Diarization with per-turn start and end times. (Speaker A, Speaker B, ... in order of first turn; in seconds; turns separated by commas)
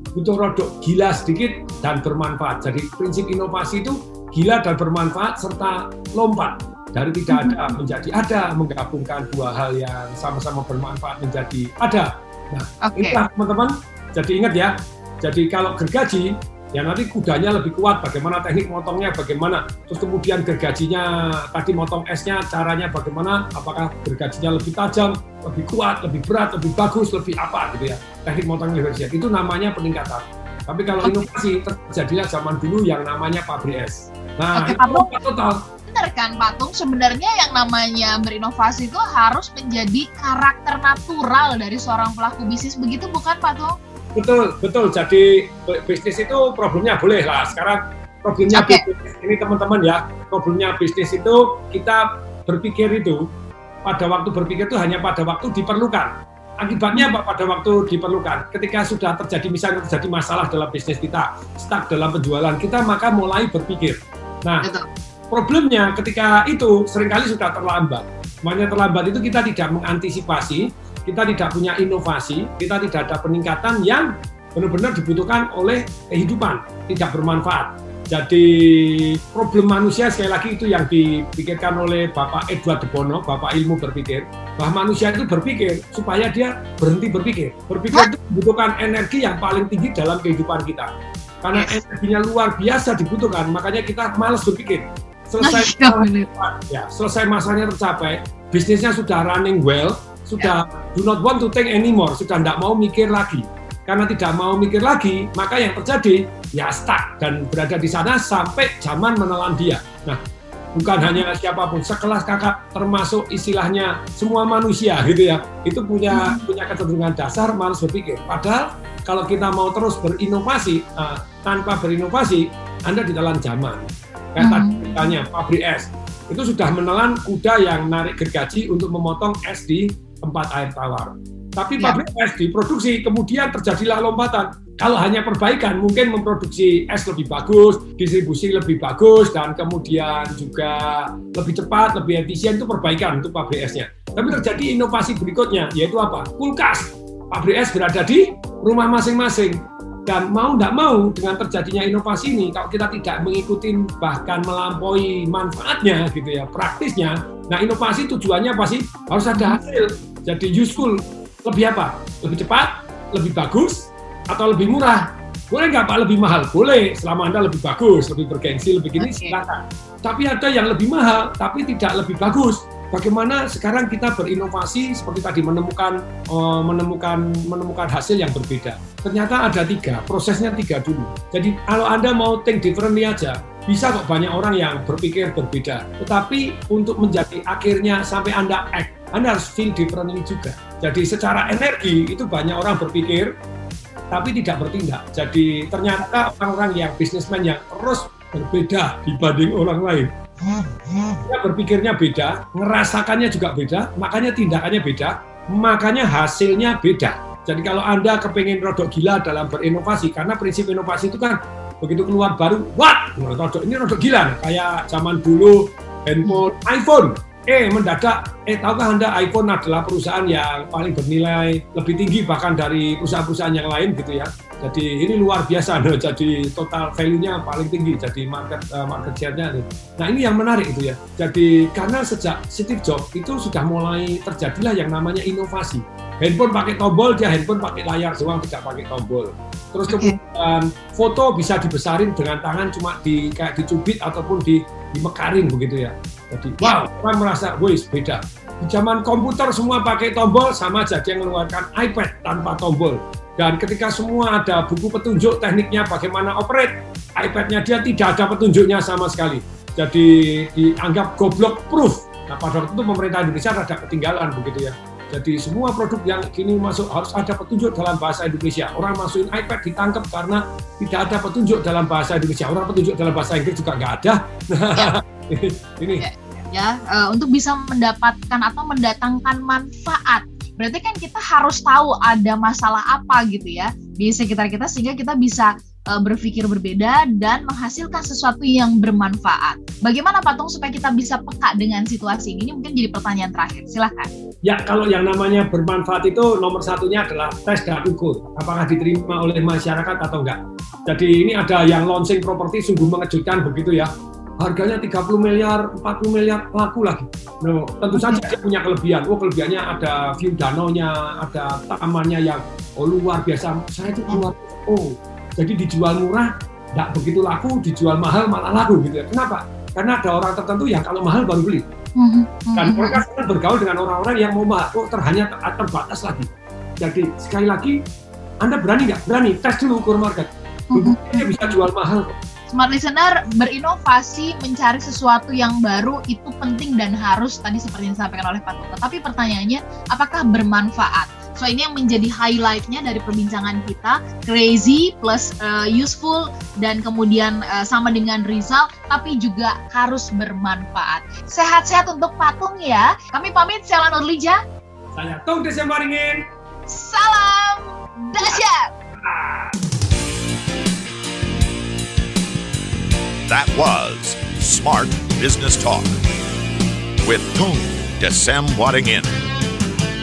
Speaker A: 0.1-35.6, Speaker B: 7.3-7.8, Speaker B: 12.8-13.2, Speaker B: 31.0-31.3, Speaker B: 34.5-35.1, Speaker B: 35.9-43.8, Speaker A: 44.2-53.2, Speaker B: 48.5-48.8, Speaker A: 53.9-64.7, Speaker A: 65.3-90.9, Speaker A: 91.4-110.2, Speaker B: 91.5-91.8, Speaker B: 95.4-96.3, Speaker A: 110.8-193.3, Speaker B: 110.9-111.2, Speaker B: 116.1-116.4, Speaker B: 124.4-125.2, Speaker B: 159.3-159.6, Speaker B: 169.0-169.3, Speaker A: 194.1-200.1, Speaker A: 201.2-276.1, Speaker B: 239.9-240.2, Speaker B: 276.0-294.1, Speaker A: 294.5-303.9, Speaker A: 304.4-321.6, Speaker B: 307.9-308.3, Speaker B: 322.0-323.0, Speaker A: 322.5-326.3, Speaker A: 326.8-327.8, Speaker A: 328.4-332.1, Speaker B: 330.7-331.5, Speaker B: 332.5-354.4, Speaker A: 354.9-356.2, Speaker B: 356.7-358.7, Speaker A: 359.0-359.6, Speaker C: 363.3-366.0, Speaker C: 367.0-369.2